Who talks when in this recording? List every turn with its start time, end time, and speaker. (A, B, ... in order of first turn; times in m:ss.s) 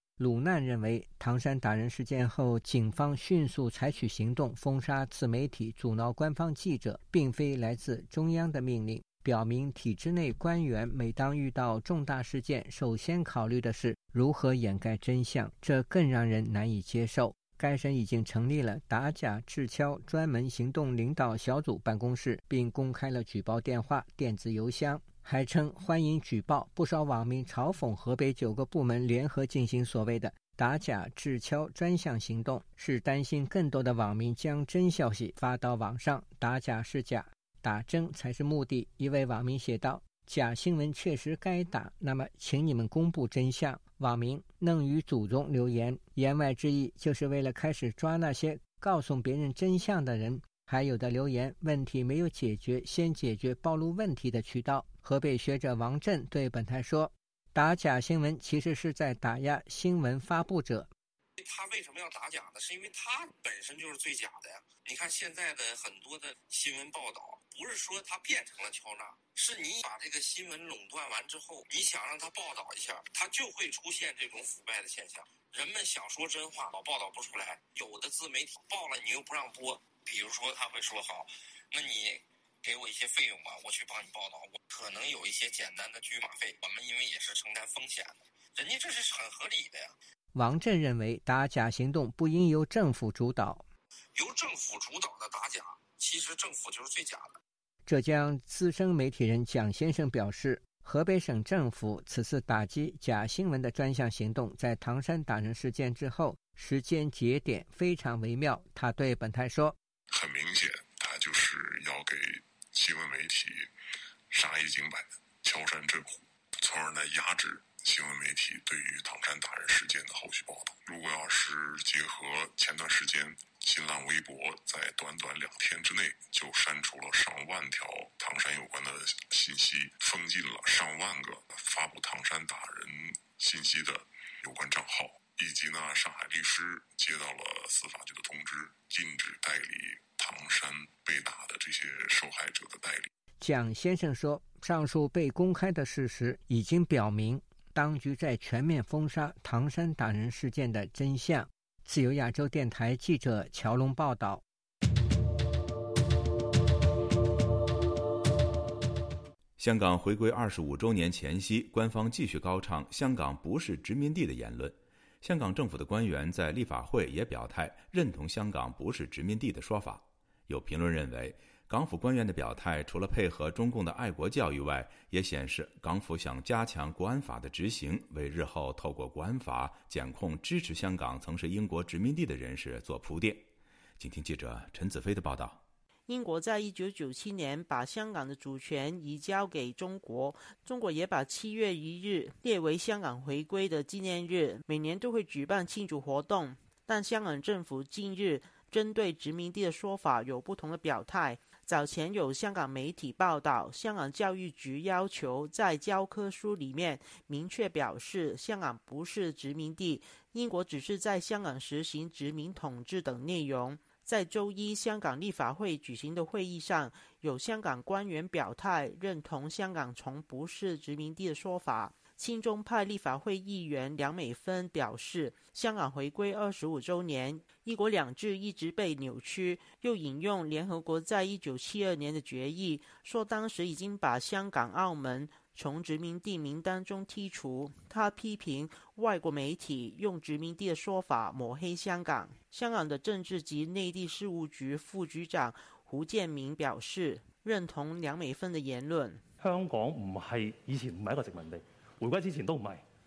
0:00.2-1:00.9 A
1:01.4-1:30.0 B
1:30.4-1:33.6 A
1:34.2-1:37.4 B
1:37.9-1:49.8 A
1:50.1-1:53.7 C
1:54.3-2:23.1 C
2:23.4-2:34.4 A
2:39.6-3:03.5 D
3:04.0-3:05.6 D
3:06.1-4:09.2 E
4:09.4-4:12.9 F